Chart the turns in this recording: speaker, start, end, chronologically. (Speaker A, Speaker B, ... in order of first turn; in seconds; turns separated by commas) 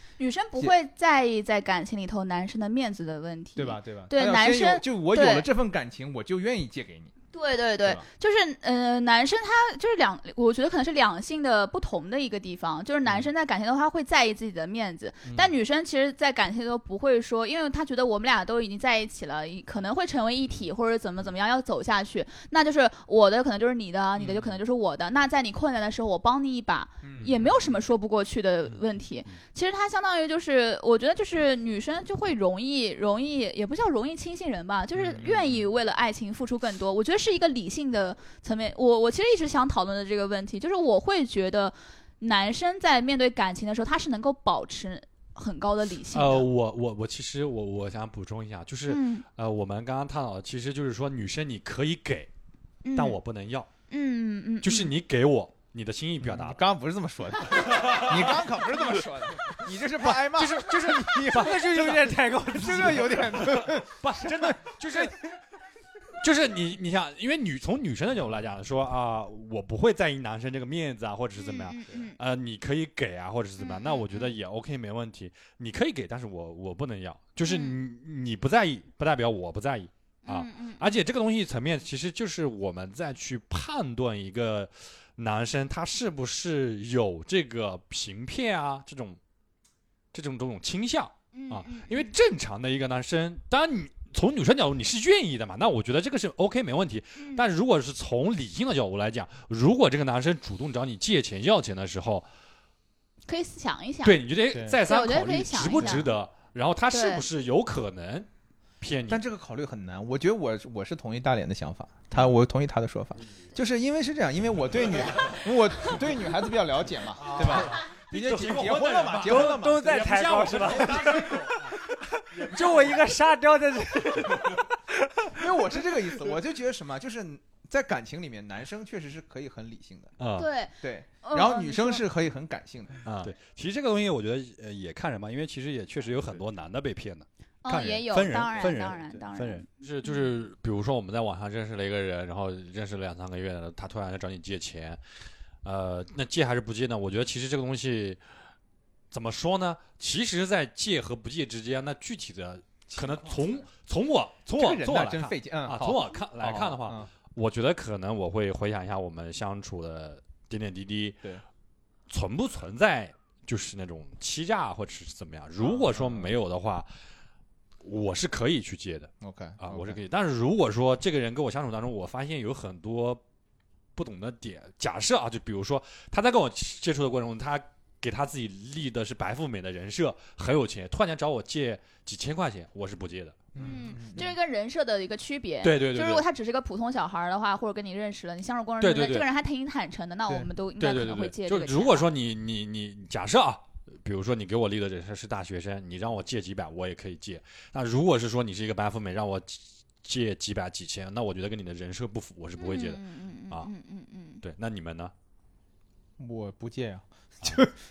Speaker A: 0.2-5.5, Speaker B: 3.6-7.1, Speaker A: 7.3-46.5, Speaker B: 27.0-27.5, Speaker B: 35.1-35.6, Speaker C: 46.1-52.3, Speaker A: 48.9-49.2, Speaker A: 52.8-53.2, Speaker C: 53.0-53.7, Speaker A: 53.9-54.9, Speaker C: 54.6-56.6, Speaker B: 56.2-65.2, Speaker C: 57.5-58.5, Speaker C: 60.0-65.3, Speaker D: 61.4-63.4, Speaker C: 66.2-89.2, Speaker A: 71.4-72.2, Speaker A: 73.6-74.3, Speaker A: 77.4-77.8, Speaker A: 80.3-80.9, Speaker C: 90.1-102.3, Speaker A: 91.3-92.1, Speaker A: 97.2-97.5, Speaker A: 103.3-104.2, Speaker C: 104.0-108.3, Speaker B: 104.5-104.8, Speaker A: 104.8-106.1, Speaker A: 106.9-107.3, Speaker C: 108.8-109.2, Speaker B: 109.1-120.1, Speaker C: 117.2-121.8, Speaker D: 119.2-126.3, Speaker B: 120.6-121.2, Speaker C: 122.3-123.1, Speaker B: 125.3-130.2, Speaker C: 130.2-130.5, Speaker A: 130.4-132.1, Speaker B: 130.8-133.0, Speaker C: 133.0-145.0, Speaker A: 137.6-140.2, Speaker C: 145.6-148.2, Speaker C: 149.1-161.2, Speaker B: 154.6-157.1, Speaker C: 162.1-166.9, Speaker B: 165.6-166.3, Speaker C: 167.8-173.2, Speaker B: 169.2-170.0, Speaker C: 174.0-183.5, Speaker B: 183.5-184.3, Speaker A: 183.6-192.1, Speaker C: 185.6-186.2, Speaker C: 188.8-189.3, Speaker C: 190.8-203.7, Speaker A: 202.6-204.4, Speaker C: 204.4-205.1, Speaker B: 206.2-207.8